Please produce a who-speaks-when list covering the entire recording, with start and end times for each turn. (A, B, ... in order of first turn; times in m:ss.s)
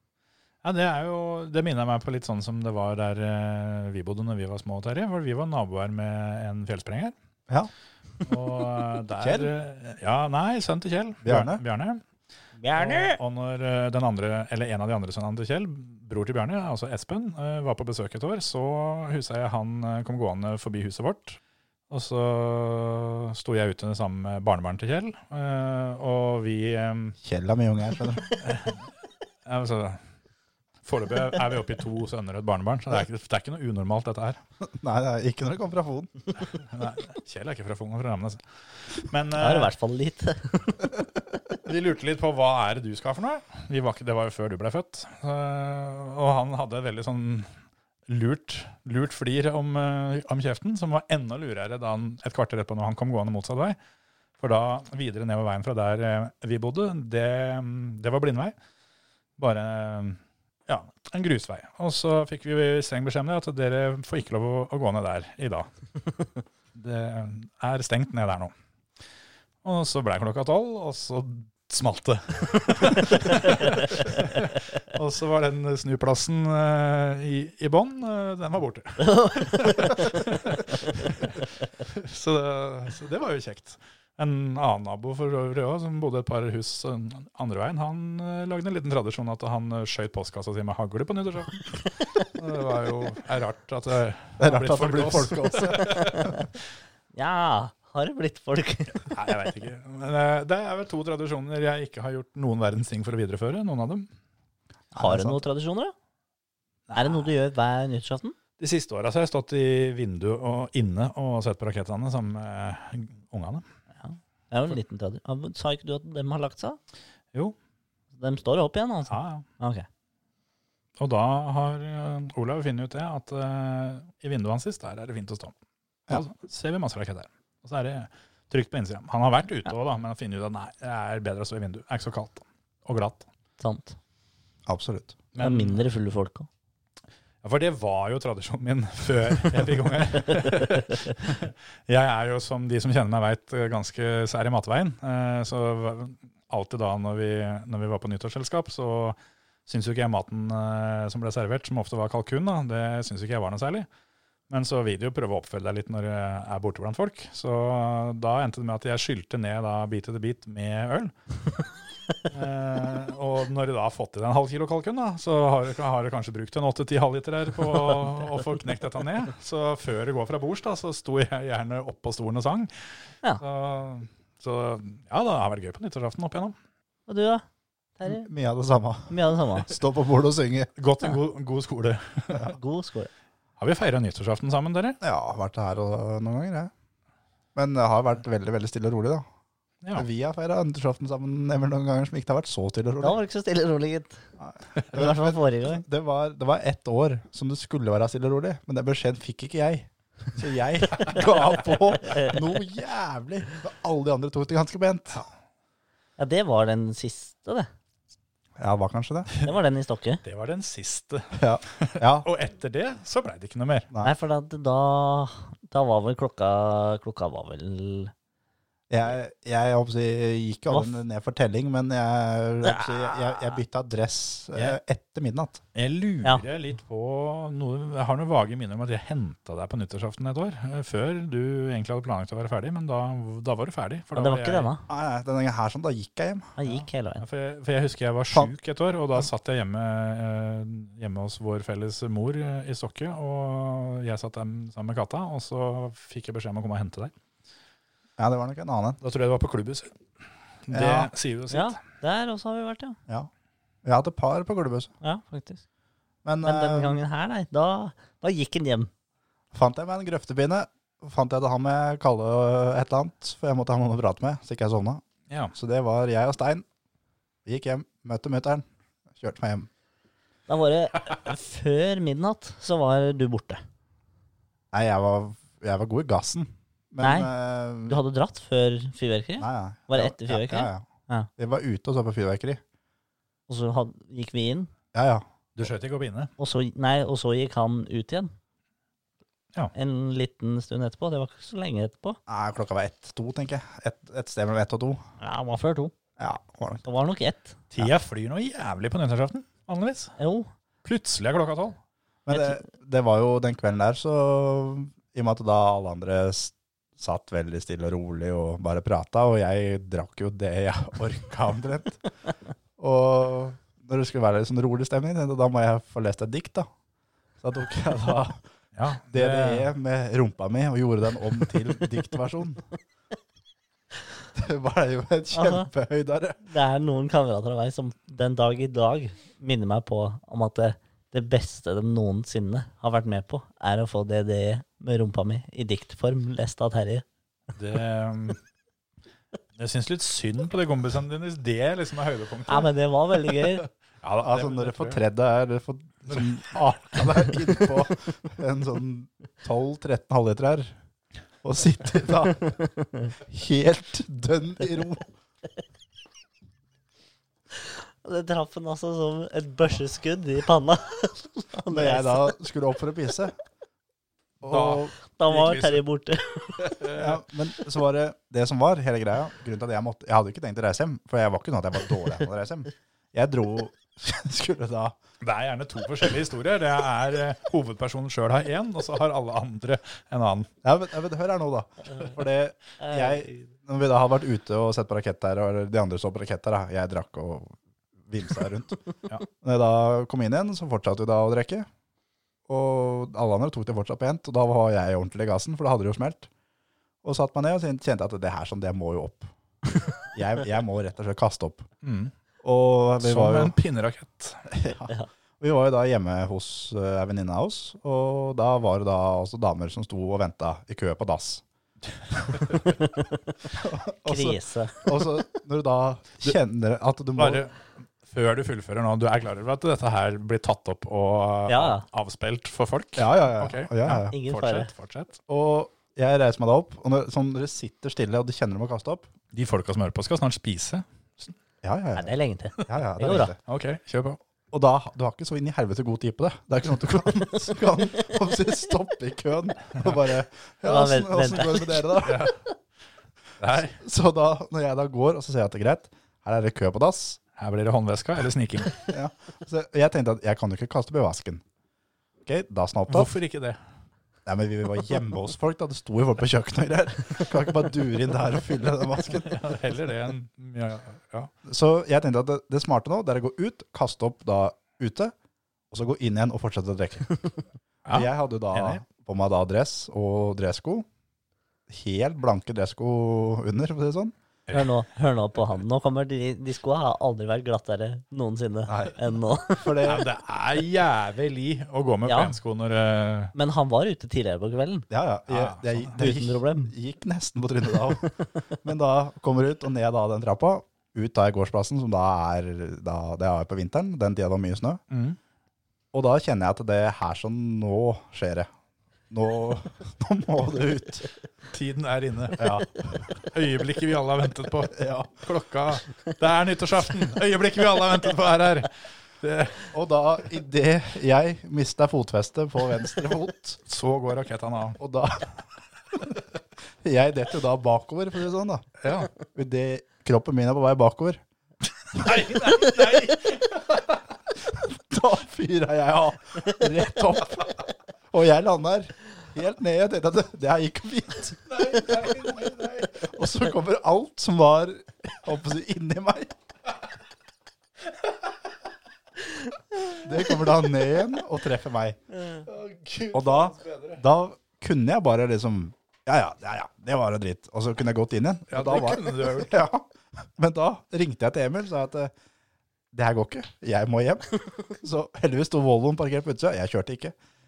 0:00.6-0:07.1 A
0:08.2-0:12.0 A
0:09.2-0:09.5 B
0:11.2-0:11.6 B
0:12.6-0:13.2 C
0:12.8-0:21.4 A
0:21.9-0:27.2 A
0:27.2-0:28.4 B
0:28.4-0:28.8 A
0:29.4-0:30.0 A
0:30.8-0:34.4 A
0:34.6-0:36.2 B
0:36.6-0:39.7 A
0:39.4-0:40.9 C
0:41.6-0:47.5 A
0:48.1-0:53.8 A
0:54.4-0:58.5 A
0:59.4-1:05.7 A
1:06.7-1:08.5 A
1:09.6-1:36.4 A
1:19.0-1:20.0 C
1:34.4-1:36.2 B
1:36.0-1:36.3 C
1:37.1-1:39.2 C
1:39.0-1:44.1 A
1:44.9-1:45.4 B
1:45.0-1:45.9 C
1:46.9-1:47.3 A
1:47.0-1:48.4 C
1:48.6-1:53.6 A
1:54.0-1:56.8 C
1:58.2-1:59.9 C
1:59.1-1:59.5 A
2:01.0-2:05.5 A
2:06.1-2:13.3 A
2:13.6-2:14.0 C
2:14.6-2:15.2 B
2:15.3-2:15.8 A
2:15.4-2:16.5 C
2:17.4-2:33.9 A
2:34.5-2:41.1 A
2:42.2-2:52.7 A
2:53.4-2:56.5 A
2:57.1-2:57.4 C
2:58.0-2:58.3 C
2:58.0-3:00.7 B
2:59.1-2:59.7 C
3:00.8-3:02.5 A
3:02.5-3:03.1 C
3:03.6-3:05.0 A
3:05.0-3:06.7 B
3:07.5-3:09.2 B
3:10.0-3:13.2 B
3:13.0-3:14.2 C
3:14.4-3:25.2 B
3:14.9-3:15.8 C
3:22.0-3:22.4 C
3:26.2-3:27.7 C
3:28.6-3:29.3 B
3:29.4-3:30.2 C
3:30.2-3:33.9 A
3:31.4-3:32.3 B
3:34.0-3:38.1 C
3:38.9-3:45.6 B
3:40.7-3:41.0 C
3:42.6-3:43.6 C
3:45.8-3:54.7 A
3:54.1-3:54.8 C
3:54.9-3:56.5 B
3:56.6-3:57.2 C
3:57.2-4:07.1 A
4:08.2-4:09.0 B
4:09.0-4:09.9 A
4:10.6-4:11.8 A
4:10.7-4:11.1 B
4:11.5-4:13.0 C
4:13.8-4:14.9 B
4:15.0-4:15.6 C
4:16.2-4:17.0 B
4:16.4-4:18.9 C
4:19.5-4:25.0 B
4:25.5-4:26.6 B
4:27.5-4:29.7 B
4:30.5-4:33.6 C
4:34.7-4:38.0 B
4:37.0-4:37.3 C
4:37.9-4:41.3 C
4:39.4-4:40.8 B
4:41.4-4:42.6 B
4:43.5-4:44.7 C
4:44.9-4:45.2 B
4:45.6-4:46.3 A
4:46.4-4:48.3 C
4:49.7-4:52.2 C
4:52.3-4:55.0 B
4:55.2-4:55.9 C
4:56.2-4:56.8 B
4:56.8-4:57.6 C
4:57.7-5:00.1 A
5:00.2-5:00.5 C
5:00.8-5:01.8 A
5:02.2-5:12.0 B
5:02.3-5:02.6 C
5:12.8-5:16.7 B
5:17.4-5:18.4 B
5:18.8-5:19.7 A
5:19.1-5:22.6 B
5:24.4-5:26.4 B
5:25.3-5:25.7 C
5:26.5-5:37.0 C
5:37.6-5:38.4 A
5:39.6-5:42.7 A
5:42.5-5:43.6 C
5:44.0-5:45.0 A
5:44.2-5:50.8 B
5:51.4-5:52.6 B
5:52.6-5:53.0 C
5:53.2-5:55.1 B
5:57.6-6:02.4 C
6:01.7-6:03.3 B
6:04.4-6:04.9 B
6:04.5-6:05.8 A
6:05.1-6:06.8 C
6:06.6-6:07.2 A
6:06.9-6:15.0 B
6:15.2-6:20.5 A
6:20.6-6:27.6 B
6:22.8-6:23.5 C
6:28.1-6:28.8 B
6:29.4-6:31.7 B
6:32.5-6:36.3 B
6:37.0-6:39.3 B
6:40.0-6:41.7 B
6:41.8-6:42.1 A
6:42.4-6:43.5 B
6:43.0-6:44.5 A
6:44.5-6:51.4 B
6:52.2-6:52.6 A
6:52.7-6:53.3 C
6:53.5-6:57.4 B
6:54.0-6:55.0 C
6:57.2-7:05.2 A
7:01.5-7:01.8 C
7:03.0-7:04.1 B
7:04.1-7:04.7 C
7:05.3-7:09.1 B
7:09.3-7:11.4 A
7:11.6-7:12.1 B
7:12.0-7:13.3 C
7:12.6-7:13.4 B
7:13.4-7:14.2 A
7:14.5-7:22.3 B
7:20.6-7:21.9 C
7:22.0-7:22.4 A
7:23.4-7:23.8 A
7:23.5-7:27.2 B
7:27.4-7:28.8 A
7:28.9-7:31.4 B
7:32.2-7:33.1 B
7:32.9-7:33.6 A
7:34.2-7:39.5 B
7:39.1-7:41.3 A
7:41.4-7:45.1 B
7:45.7-7:47.2 B
7:47.9-7:48.8 A
7:47.9-7:50.9 B
7:51.7-7:54.1 B
7:54.5-7:59.8 C
7:58.7-7:59.0 B
7:59.5-8:00.1 B
7:59.8-8:03.3 A
8:02.0-8:02.4 C
8:03.3-8:04.9 C
8:04.9-8:14.8 B
8:05.3-8:06.0 A
8:06.0-8:06.7 C
8:14.9-8:15.2 A
8:15.9-8:18.5 B
8:19.1-8:21.1 B
8:21.5-8:29.7 A
8:22.4-8:22.7 B
8:24.7-8:25.1 B
8:29.7-8:33.6 B
8:33.6-8:34.8 A
8:34.8-8:35.3 B
8:36.8-8:38.7 B
8:38.8-8:39.1 A
8:39.3-8:41.2 B
8:41.9-8:44.0 A
8:44.5-8:52.2 B
8:51.5-8:53.1 A
8:53.0-8:56.3 B
8:59.9-9:02.0 B
9:02.5-9:04.0 A
9:03.1-9:12.1 B
9:08.5-9:09.6 A
9:12.9-9:17.2 B